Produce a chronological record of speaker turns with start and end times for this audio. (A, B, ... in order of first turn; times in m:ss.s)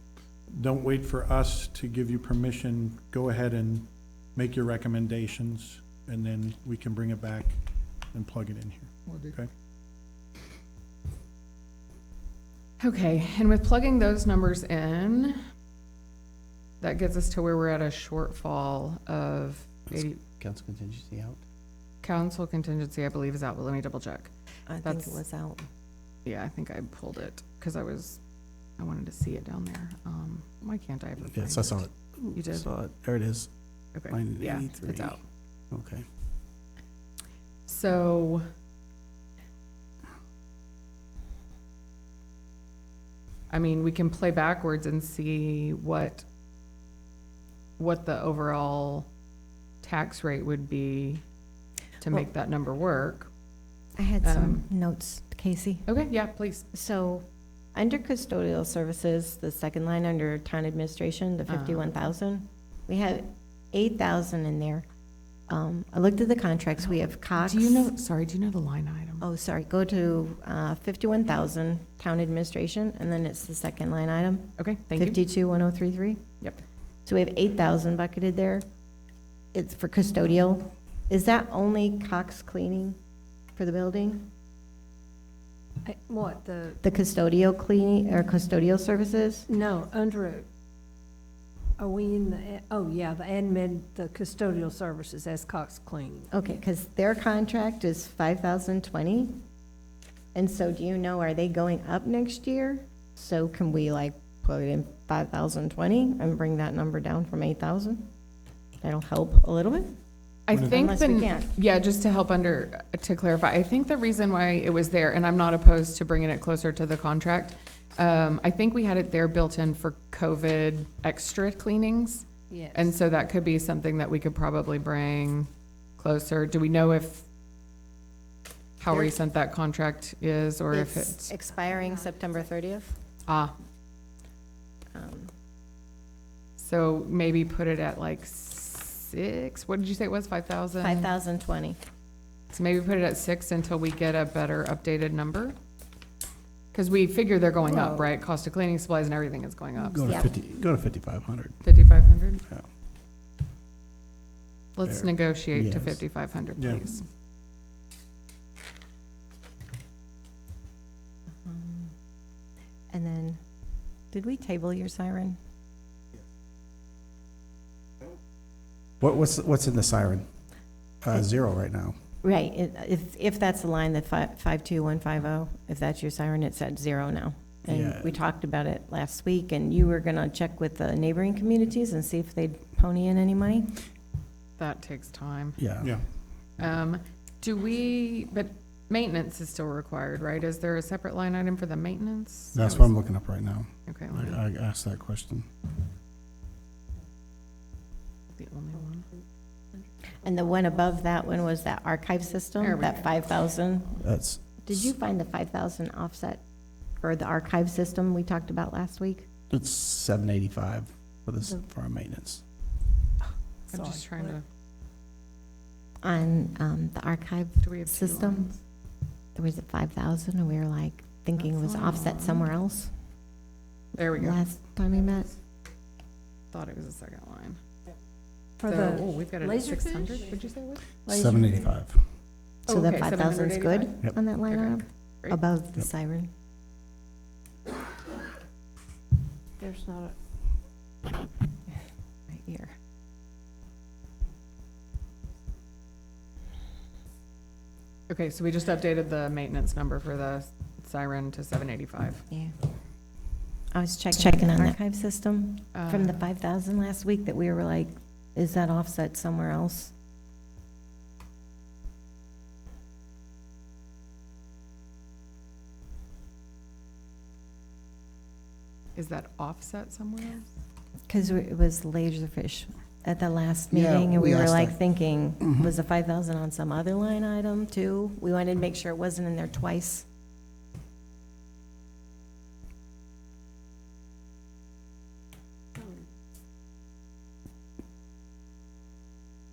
0:00.5-0:09.5 A
0:12.8-0:15.4 B
0:16.8-0:20.2 B
0:19.9-0:21.4 C
0:22.0-0:24.3 B
0:24.7-0:25.6 D
0:24.8-0:25.2 B
0:26.2-0:28.2 B
0:28.8-0:32.7 B
0:31.3-0:33.5 C
0:33.9-0:35.2 B
0:34.1-0:35.2 C
0:35.7-0:36.0 C
0:37.7-0:38.4 B
0:43.5-0:46.2 B
0:47.8-0:49.1 B
0:49.8-0:51.2 B
0:52.0-0:53.3 B
0:54.0-0:55.9 D
0:54.2-0:54.6 B
0:55.9-0:56.6 B
0:56.7-1:04.8 D
1:01.5-1:01.9 B
1:05.5-1:07.9 D
1:07.3-1:09.2 B
1:09.2-1:16.2 D
1:14.6-1:15.2 B
1:17.0-1:18.6 D
1:19.5-1:23.0 D
1:23.6-1:24.3 D
1:25.8-1:26.8 E
1:26.8-1:29.4 D
1:29.5-1:30.4 E
1:31.8-1:36.3 E
1:36.3-1:39.4 D
1:40.3-1:48.1 D
1:48.8-1:49.9 D
1:50.5-2:07.2 B
1:50.5-1:50.8 A
1:50.6-1:51.5 D
2:02.5-2:02.9 E
2:08.8-2:11.3 B
2:08.9-2:09.1 D
2:10.7-2:13.0 D
2:13.3-2:13.5 B
2:14.9-2:15.3 D
2:16.6-2:21.1 B
2:20.8-2:21.8 D
2:22.5-2:25.6 B
2:26.7-2:30.2 B
2:27.6-2:28.1 E
2:29.8-2:31.7 C
2:30.0-2:30.3 D
2:31.6-2:32.4 B
2:34.8-2:37.0 B
2:34.8-2:36.0 C
2:36.6-2:36.8 A
2:41.4-2:41.9 D
2:42.9-2:43.4 D
2:44.1-2:45.4 D
2:49.0-2:50.2 C
2:51.0-2:52.0 C
2:52.2-3:03.8 D
2:57.6-2:58.2 C
3:04.6-3:05.6 B
3:05.6-3:05.9 C
3:05.8-3:06.1 A
3:06.6-3:12.9 B
3:12.5-3:15.5 C
3:13.8-3:14.4 B
3:18.3-3:19.0 B
3:20.2-3:24.0 D
3:22.6-3:23.3 B
3:24.0-3:24.9 C
3:24.6-3:26.4 D
3:27.0-3:29.3 D
3:29.5-3:32.4 C
3:33.7-3:34.4 B
3:33.7-3:34.3 E
3:36.0-3:38.5 D
3:37.6-3:38.6 B
3:39.3-3:42.9 D
3:41.4-3:42.5 B
3:43.9-3:44.4 B
3:44.2-3:45.3 D
3:46.5-3:47.6 B
3:48.6-3:50.3 E
3:48.6-3:50.9 B
3:51.0-3:51.7 E
3:51.1-3:52.1 C
3:52.7-3:55.4 B
3:52.7-3:56.3 D
3:59.6-4:00.2 E
4:02.3-4:02.7 D
4:08.1-4:12.2 B
4:12.3-4:12.5 D
4:13.7-4:19.9 D
4:15.7-4:16.2 B
4:29.0-4:30.5 B
4:31.1-4:40.0 D
4:33.7-4:34.8 C
4:35.4-4:35.7 C